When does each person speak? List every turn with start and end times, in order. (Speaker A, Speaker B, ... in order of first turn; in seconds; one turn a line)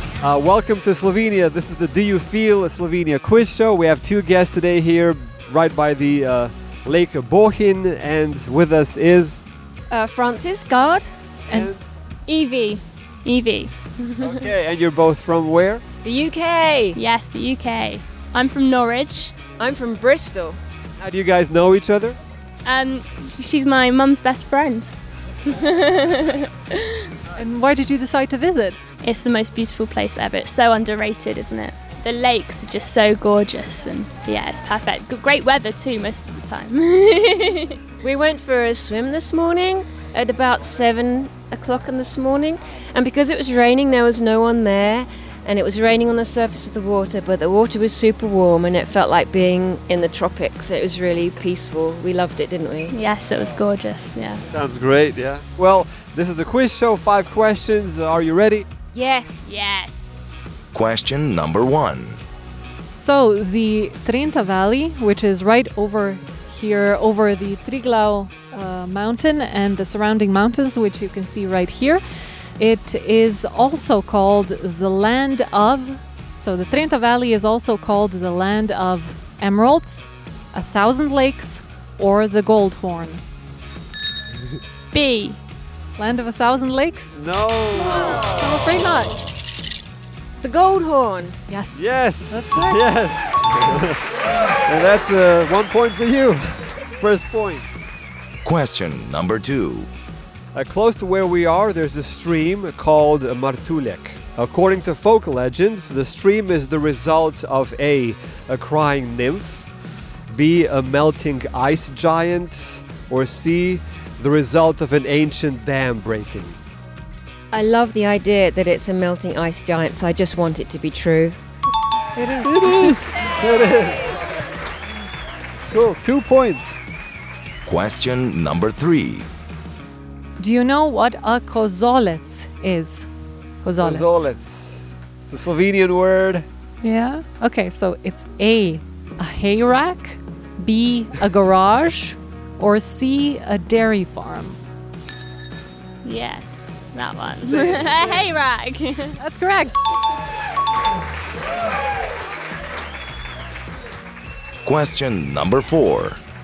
Speaker A: 0.2-9.4
Speaker B: 9.9-11.1
Speaker A: 11.5-11.8
Speaker C: 12.3-14.3
Speaker A: 14.2-15.9
Speaker B: 16.0-17.0
Speaker C: 16.9-19.3
Speaker B: 19.6-20.6
Speaker A: 21.0-22.2
Speaker C: 22.6-24.9
Speaker C: 25.5-27.0
Speaker D: 27.3-28.8
Speaker C: 29.0-37.8
Speaker B: 38.0-52.9
Speaker C: 52.9-54.5
Speaker A: 54.4-58.6
Speaker B: 58.9-59.5
Speaker C: 59.5-60.1
Speaker E: 60.7-62.2
Speaker D: 62.9-72.0
Speaker D: 72.6-83.2
Speaker C: 84.9-85.4
Speaker D: 86.0-87.2
Speaker A: 87.1-88.2
Speaker D: 87.8-89.2
Speaker B: 90.4-91.4
Speaker D: 91.5-93.0
Speaker A: 91.7-94.0
Speaker A: 94.7-97.7
Speaker E: 98.4-99.9
Speaker A: 100.5-109.7
Speaker A: 110.3-116.6
Speaker B: 117.5-121.4
Speaker D: 122.2-123.0
Speaker A: 122.4-124.1
Speaker A: 125.7-126.8
Speaker E: 127.7-129.3
Speaker D: 130.4-133.1
Speaker D: 133.6-134.3
Speaker A: 133.8-136.4
Speaker D: 136.8-144.6
Speaker C: 146.0-149.2
Speaker A: 147.4-148.2
Speaker D: 149.2-149.8
Speaker E: 154.7-156.2